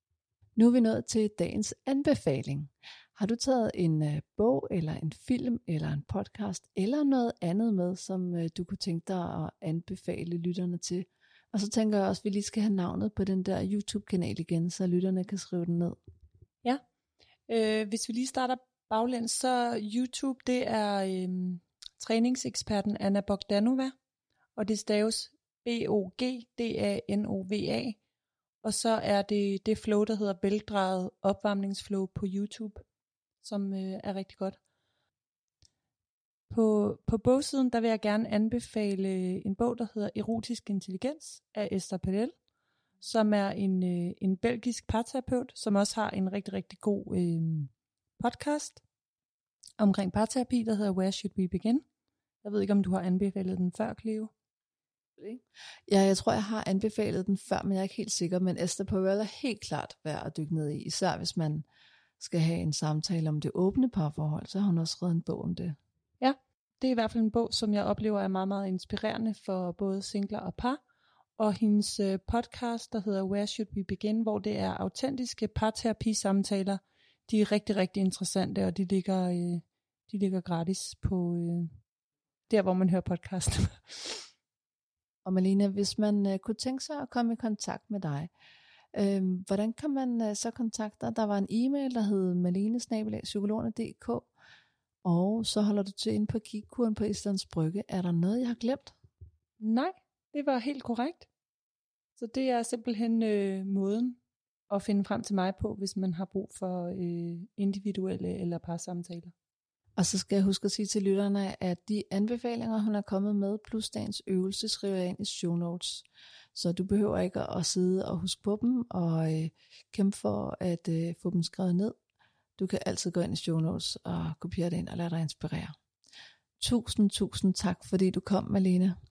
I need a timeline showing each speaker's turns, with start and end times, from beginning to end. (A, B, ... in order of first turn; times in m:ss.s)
0:00.6-0:16.0 A
0:17.5-0:23.9 B
0:24.6-0:28.0 B
0:28.6-0:32.8 B
0:33.4-0:34.6 B
0:36.5-0:42.3 B
0:43.0-0:48.8 B
0:49.8-0:51.8 B
0:52.4-0:54.3 B
0:55.2-1:01.6 A
1:02.2-1:05.8 A
1:06.2-1:10.8 B
1:11.4-1:21.7 B
1:22.5-1:24.3 B
1:25.2-1:28.3 A
1:28.9-1:34.3 A
1:35.0-1:38.9 A
1:39.6-1:41.3 B
1:42.2-1:44.2 B
1:44.7-1:49.3 B
1:50.0-2:02.0 A
2:02.6-2:05.7 A
2:06.6-2:09.0 A